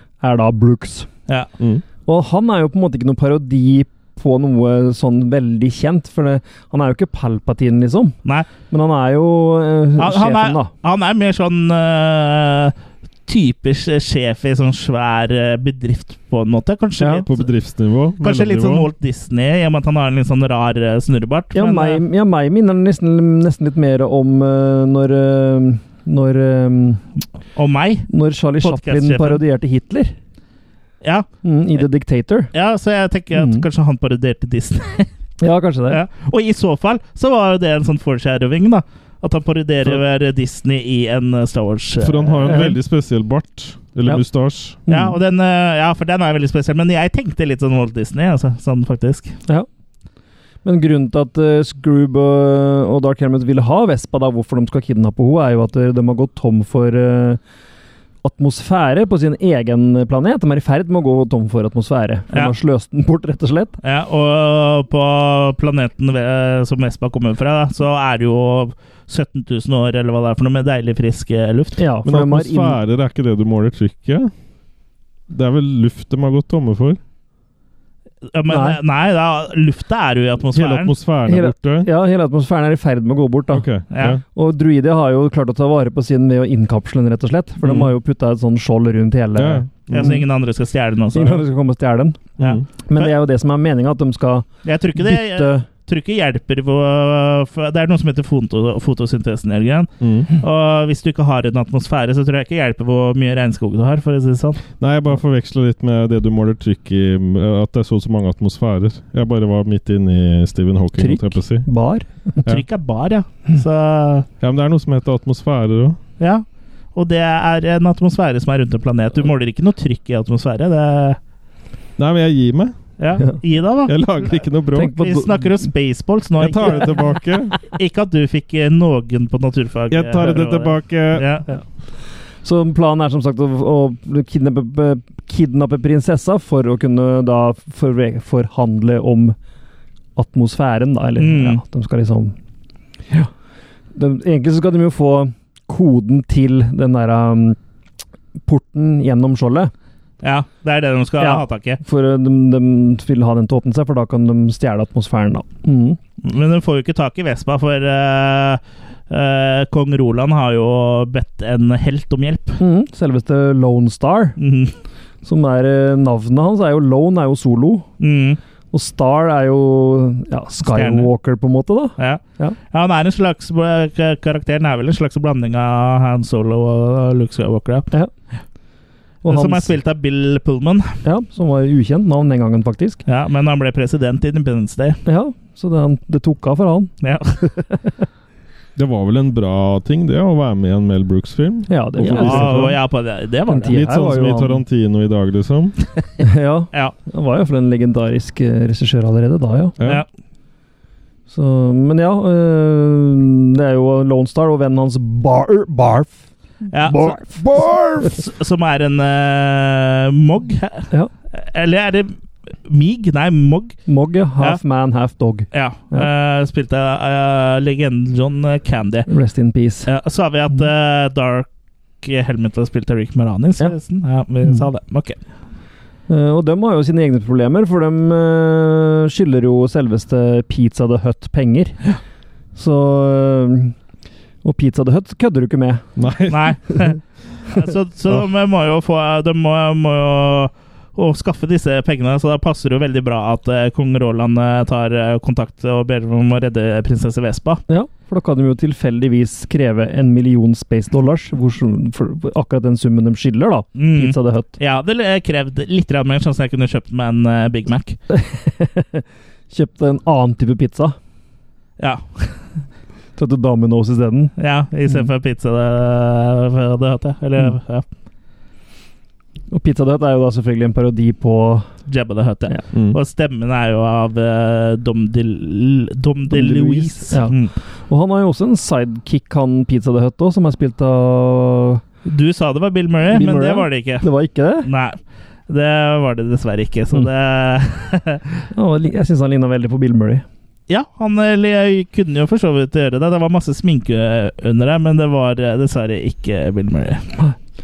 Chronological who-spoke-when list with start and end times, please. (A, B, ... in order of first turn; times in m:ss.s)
0:00.2-0:01.1 A
0:02.1-0:08.2 A
0:08.7-0:10.7 A
0:10.0-0:12.8 B
0:13.3-0:17.5 B
0:17.0-0:17.3 A
0:17.3-0:18.9 C
0:18.2-0:22.0 B
0:21.5-0:27.0 A
0:27.6-0:28.1 B
0:28.1-0:30.1 A
0:28.6-0:29.4 B
0:31.0-0:31.3 B
0:31.4-0:32.5 A
0:32.5-0:35.1 B
0:33.3-0:33.7 A
0:35.4-0:36.0 A
0:35.9-0:42.7 B
0:42.0-0:44.8 C
0:42.5-0:42.8 A
0:44.9-0:45.2 A
0:44.9-0:49.4 B
0:50.6-0:57.4 A
0:58.2-1:03.8 A
1:03.8-1:11.8 B
1:11.8-1:12.8 A
1:12.0-1:14.3 C
1:15.3-1:17.0 C
1:18.3-1:20.9 B
1:18.5-1:18.8 A
1:20.5-1:21.9 C
1:21.3-1:23.7 A
1:23.5-1:24.2 C
1:23.9-1:24.2 B
1:24.3-1:30.2 A
1:29.4-1:30.2 C
1:29.9-1:31.4 B
1:31.1-1:32.3 A
1:32.4-1:32.6 C
1:32.4-1:33.1 B
1:32.8-1:35.7 A
1:34.6-1:44.6 B
1:40.0-1:40.3 C
1:44.8-1:51.7 C
1:51.0-1:52.4 A
1:52.4-1:54.3 B
1:54.4-1:56.0 C
1:56.2-2:01.2 B
2:02.0-2:02.8 C
2:03.0-2:04.0 B
2:03.9-2:05.0 C
2:04.8-2:05.7 A
2:05.0-2:06.9 B
2:06.4-2:07.6 C
2:07.6-2:11.4 B
2:09.9-2:11.3 C
2:12.4-2:19.4 A
2:20.2-2:22.4 A
2:21.2-2:21.6 B
2:23.9-2:27.6 A
2:28.4-2:29.7 A
2:30.2-2:31.8 B
2:31.2-2:36.0 A
2:36.2-2:42.6 B
2:42.6-2:44.4 A
2:44.4-2:44.7 B
2:45.2-2:47.9 A
2:48.0-2:48.4 B
2:48.7-2:52.6 A
2:50.6-2:51.1 B
2:52.0-2:57.9 B
2:59.2-2:59.8 A
2:59.3-3:01.0 B
3:01.0-3:03.0 A
3:03.1-3:05.0 B
3:05.0-3:08.0 A
3:07.0-3:07.5 B
3:08.8-3:12.8 C
3:11.7-3:12.8 A
3:12.0-3:13.8 B
3:13.5-3:14.6 A
3:13.7-3:15.8 C
3:16.2-3:19.8 A
3:19.8-3:20.0 C
3:21.3-3:26.2 A
3:26.7-3:33.8 B
3:26.8-3:28.2 A
3:33.9-3:36.1 A
3:35.5-3:39.1 B
3:39.1-3:39.9 A
3:39.8-3:41.5 B
3:42.0-3:45.2 B
3:46.1-3:51.8 A
3:52.6-3:53.8 A
3:54.4-3:55.9 A
3:56.0-3:56.7 C
3:56.3-4:07.6 B
4:07.7-4:14.6 A
4:13.8-4:18.0 B
4:18.1-4:21.0 A
4:21.8-4:22.4 B
4:23.2-4:24.3 A
4:24.4-4:27.8 B
4:29.5-4:31.7 A
4:31.9-4:37.5 B
4:32.7-4:33.0 C
4:36.3-4:41.8 A
4:42.0-4:44.1 B
4:43.1-4:44.7 A
4:44.6-4:48.4 B
4:48.5-4:50.2 A
4:50.7-4:57.1 B